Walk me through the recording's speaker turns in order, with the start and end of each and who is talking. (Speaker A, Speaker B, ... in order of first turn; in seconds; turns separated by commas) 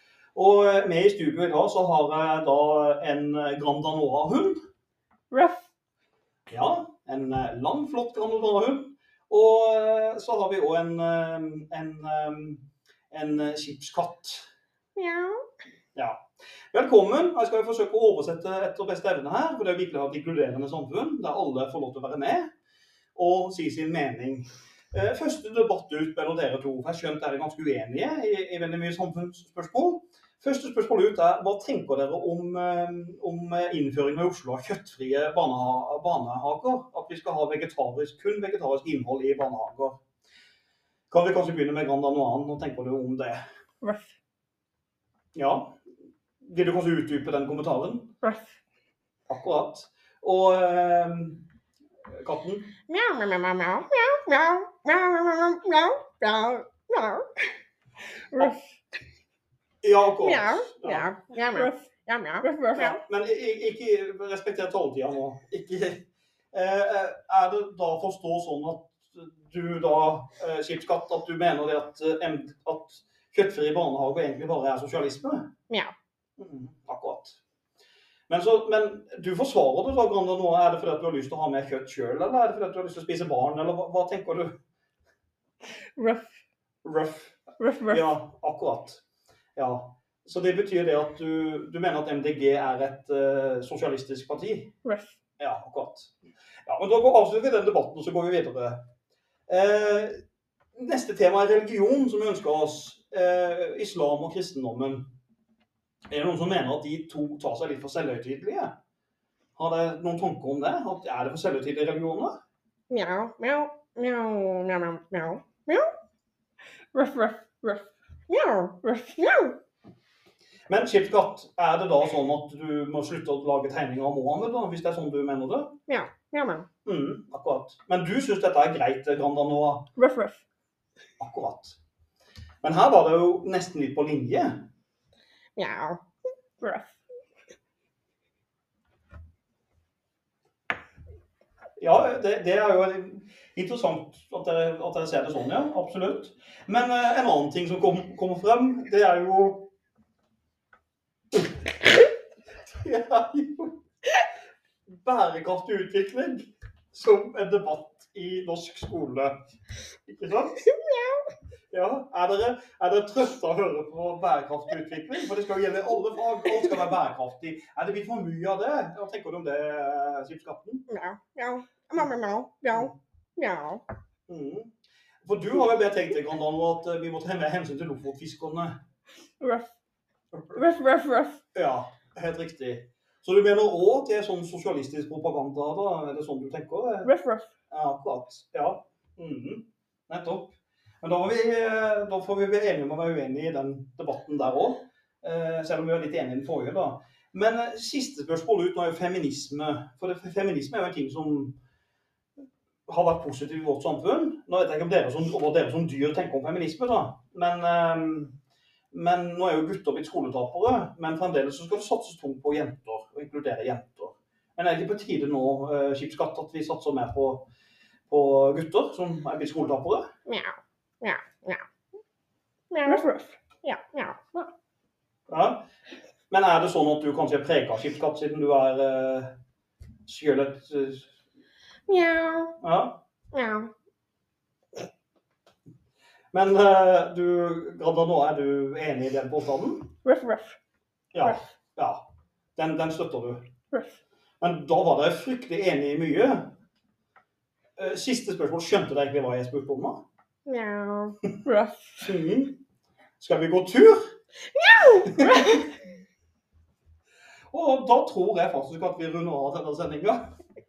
Speaker A: 0.3-4.6, Speaker B: 5.3-5.6, Speaker A: 6.5-14.5, Speaker C: 15.0-15.4, Speaker A: 15.9-16.2, Speaker A: 16.7-22.5, Speaker A: 23.1-40.0, Speaker A: 41.1-43.4, Speaker B: 43.8-44.1, Speaker A: 45.4-45.8, Speaker A: 46.4-48.1, Speaker B: 48.2-48.5, Speaker A: 49.3-51.5, Speaker A: 52.1-52.8, Speaker C: 52.9-57.2, Speaker B: 58.3-58.7, Speaker A: 59.8-61.1, Speaker C: 60.2-63.0, Speaker B: 61.5-63.0, Speaker A: 62.8-75.5, Speaker A: 76.4-77.4, Speaker A: 78.3-84.5, Speaker B: 86.0-86.3, Speaker A: 86.8-89.0, Speaker B: 87.6-88.1, Speaker A: 89.6-94.7, Speaker B: 94.8-95.2, Speaker A: 95.4-96.1, Speaker A: 96.7-98.8, Speaker A: 99.5-100.2, Speaker A: 100.7-105.1, Speaker A: 106.1-108.8, Speaker A: 109.5-112.4, Speaker C: 112.9-115.9, Speaker B: 116.9-117.9, Speaker C: 118.3-119.6, Speaker B: 118.8-119.2, Speaker A: 120.7-125.8, Speaker C: 125.9-126.7, Speaker A: 126.8-129.9, Speaker B: 130.0-130.4, Speaker A: 131.2-131.8, Speaker A: 132.6-134.7, Speaker C: 135.6-136.0, Speaker B: 136.6-136.9, Speaker A: 141.8-149.7, Speaker A: 152.7-153.8, Speaker A: 154.9-159.4, Speaker A: 160.1-160.7, Speaker C: 160.6-161.2, Speaker A: 161.7-170.8, Speaker C: 170.9-173.8, Speaker A: 174.3-174.7, Speaker A: 175.2-178.8, Speaker B: 179.4-179.7, Speaker A: 180.3-180.6, Speaker B: 180.6-181.4, Speaker A: 181.5-187.1, Speaker B: 187.1-187.5, Speaker A: 187.7-201.6, Speaker A: 202.9-208.3, Speaker A: 208.9-217.5, Speaker A: 218.1-220.1, Speaker C: 220.3-221.6, Speaker C: 222.7-223.1, Speaker B: 222.8-223.4, Speaker C: 223.6-224.5, Speaker A: 225.3-225.7, Speaker A: 226.3-229.4, Speaker A: 230.1-231.1, Speaker C: 231.9-232.6, Speaker A: 232.6-233.0, Speaker C: 233.3-233.7, Speaker A: 236.3-239.9, Speaker B: 240.0-240.6, Speaker A: 241.1-243.5, Speaker B: 243.7-244.0, Speaker A: 244.4-246.6, Speaker A: 247.8-250.0, Speaker C: 250.5-251.2, Speaker B: 251.4-252.1, Speaker A: 252.0-252.6, Speaker A: 253.2-254.1, Speaker C: 254.6-255.7, Speaker A: 255.1-255.5, Speaker A: 257.5-260.2